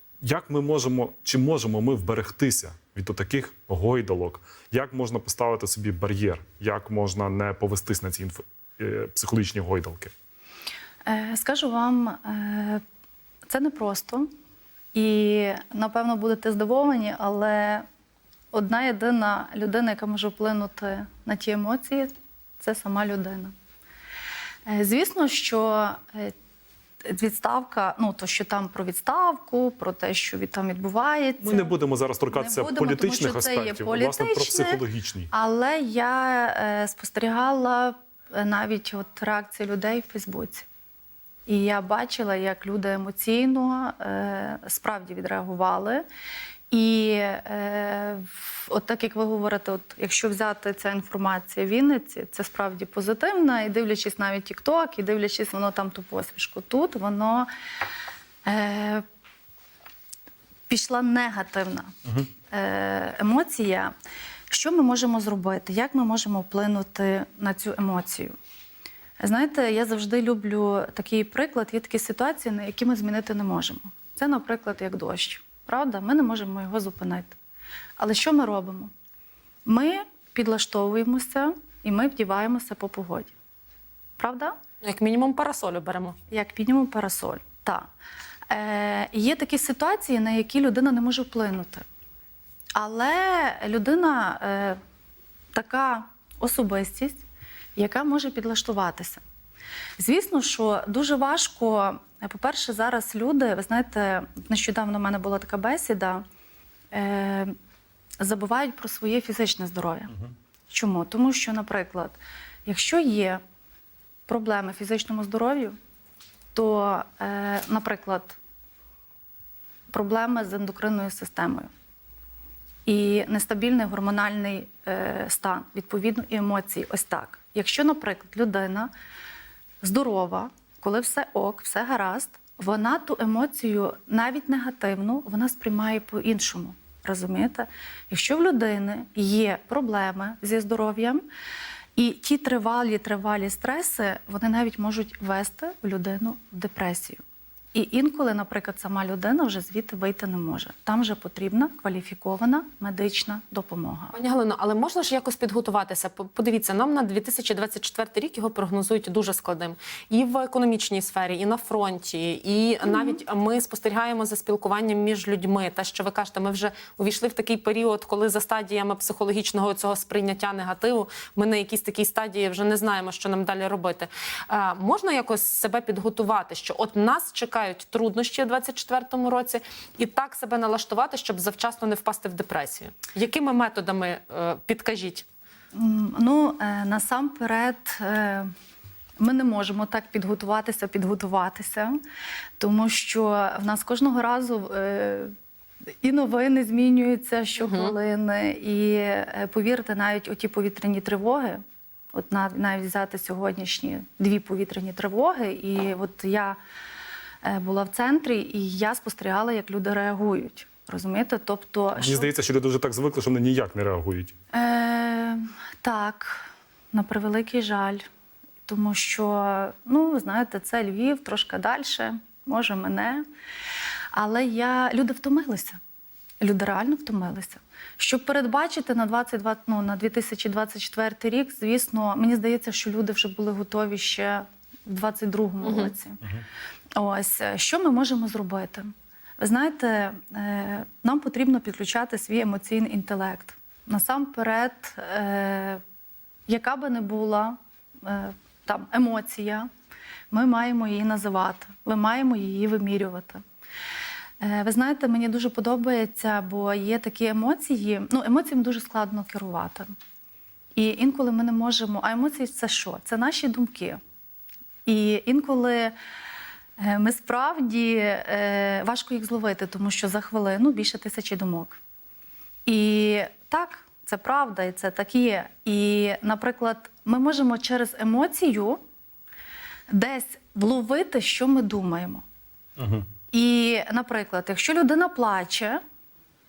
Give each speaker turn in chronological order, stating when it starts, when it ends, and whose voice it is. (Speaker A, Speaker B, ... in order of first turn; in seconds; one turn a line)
Speaker A: 0.2-10.1
Speaker B: 11.1-12.8
Speaker B: 13.5-14.3
Speaker B: 14.9-17.8
Speaker B: 18.5-23.5
Speaker B: 24.7-26.3
Speaker B: 27.1-31.7
Speaker A: 31.4-35.3
Speaker B: 32.3-40.7
Speaker B: 41.5-46.1
Speaker B: 46.7-57.5
Speaker B: 58.5-59.0
Speaker B: 60.7-63.9
Speaker B: 64.5-68.3
Speaker B: 69.2-77.3
Speaker B: 78.0-78.9
Speaker B: 79.7-83.3
Speaker B: 84.2-84.6
Speaker C: 84.8-86.2
Speaker B: 86.3-87.9
Speaker B: 88.5-91.8
Speaker B: 92.8-94.8
Speaker B: 95.5-97.2
Speaker B: 97.8-99.2
Speaker B: 100.0-106.2
Speaker B: 106.9-107.5
Speaker B: 108.2-110.1
Speaker B: 110.7-113.4
Speaker B: 114.3-115.8
Speaker B: 116.5-118.4
Speaker B: 119.9-121.7
Speaker B: 122.8-128.9
Speaker B: 129.8-141.3
Speaker B: 142.0-147.2
Speaker B: 147.7-154.1
Speaker C: 154.1-185.2
Speaker B: 162.8-163.2
Speaker B: 185.7-188.5
Speaker B: 189.2-192.0
Speaker B: 192.6-195.3
Speaker B: 196.0-201.6
Speaker C: 197.6-197.9
Speaker B: 202.1-206.6
Speaker B: 207.4-212.3
Speaker A: 212.0-214.3
Speaker B: 214.5-218.0
Speaker B: 218.7-223.2
Speaker B: 224.1-225.8
Speaker B: 226.4-236.2
Speaker C: 235.6-235.9
Speaker B: 237.0-245.8
Speaker B: 246.5-249.7
Speaker B: 250.3-253.4
Speaker B: 254.4-259.9
Speaker B: 260.8-264.0
Speaker B: 264.9-265.9
Speaker B: 266.8-271.8
Speaker B: 272.6-278.8
Speaker B: 279.9-282.2
Speaker A: 282.8-283.1
Speaker B: 283.3-285.8